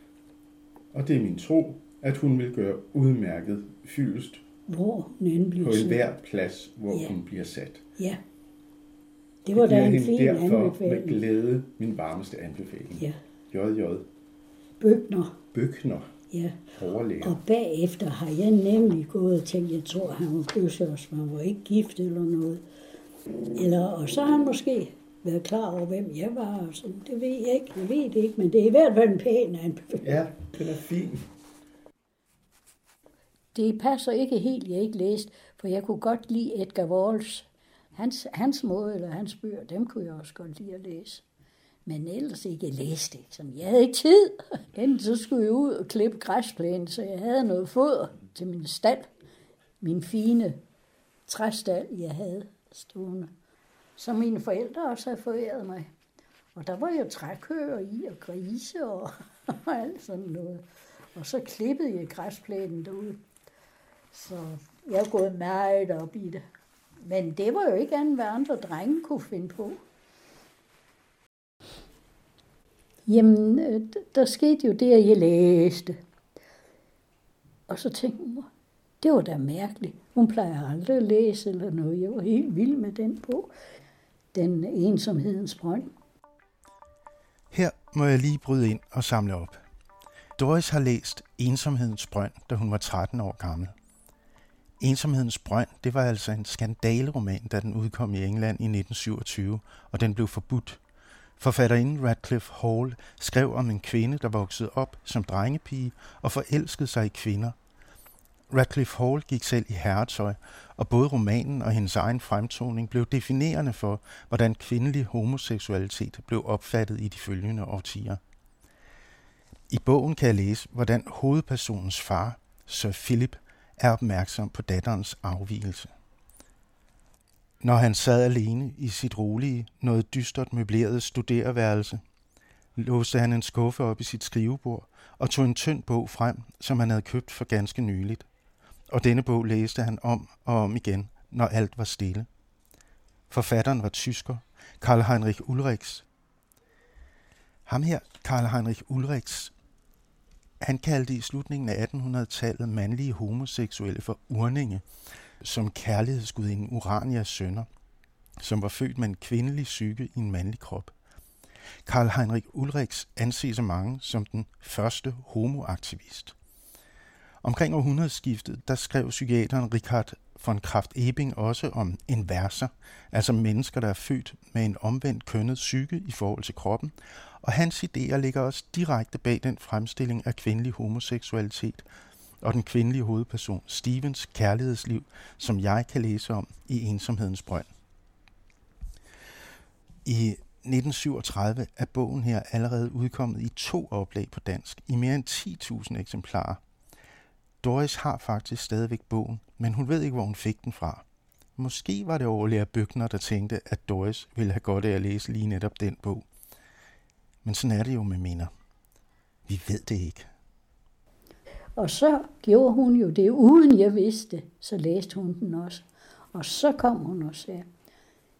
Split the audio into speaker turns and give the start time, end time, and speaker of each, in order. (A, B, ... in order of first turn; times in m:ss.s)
0:00.9-0:04.4 A
0:04.7-0:06.0 B
0:05.6-0:07.8 A
0:06.9-0:07.2 B
0:09.5-0:11.2 B
0:09.5-0:14.1 A
0:14.8-0:15.4 B
0:15.5-0:16.1 A
0:16.3-0:16.6 B
0:16.8-0:17.4 A
0:17.2-0:22.6 B
0:23.5-0:30.2 B
0:30.0-0:31.3 A
0:33.5-0:41.2 B
0:41.9-0:49.1 B
0:49.8-0:50.6 B
0:51.2-0:53.3 B
0:54.0-0:55.9 B
0:56.5-1:03.2 B
1:04.1-1:06.4 B
1:07.0-1:09.8 B
1:13.0-1:16.0 B
1:17.7-1:18.5 B
1:19.0-1:23.5 B
1:24.3-1:25.9 B
1:27.5-1:29.6 A
1:30.4-1:33.7 A
1:34.8-1:40.8 A
1:41.4-1:47.6 A
1:48.5-1:58.2 A
1:59.7-2:05.9 A
2:07.6-2:12.0 A
2:12.8-2:18.3 A
2:18.9-2:22.3 A
2:23.3-2:26.0 A
2:27.6-2:29.5 A
2:30.6-2:34.8 A
2:35.4-2:37.7 A
2:38.4-2:40.9 A
2:41.9-2:46.4 A
2:47.4-3:01.8 A
3:02.4-3:07.7 A
3:10.0-3:16.6 A
3:17.6-3:21.0 A
3:21.6-3:26.2 A
3:27.4-3:28.5 A
3:29.5-3:30.3 A
3:31.8-3:37.6 B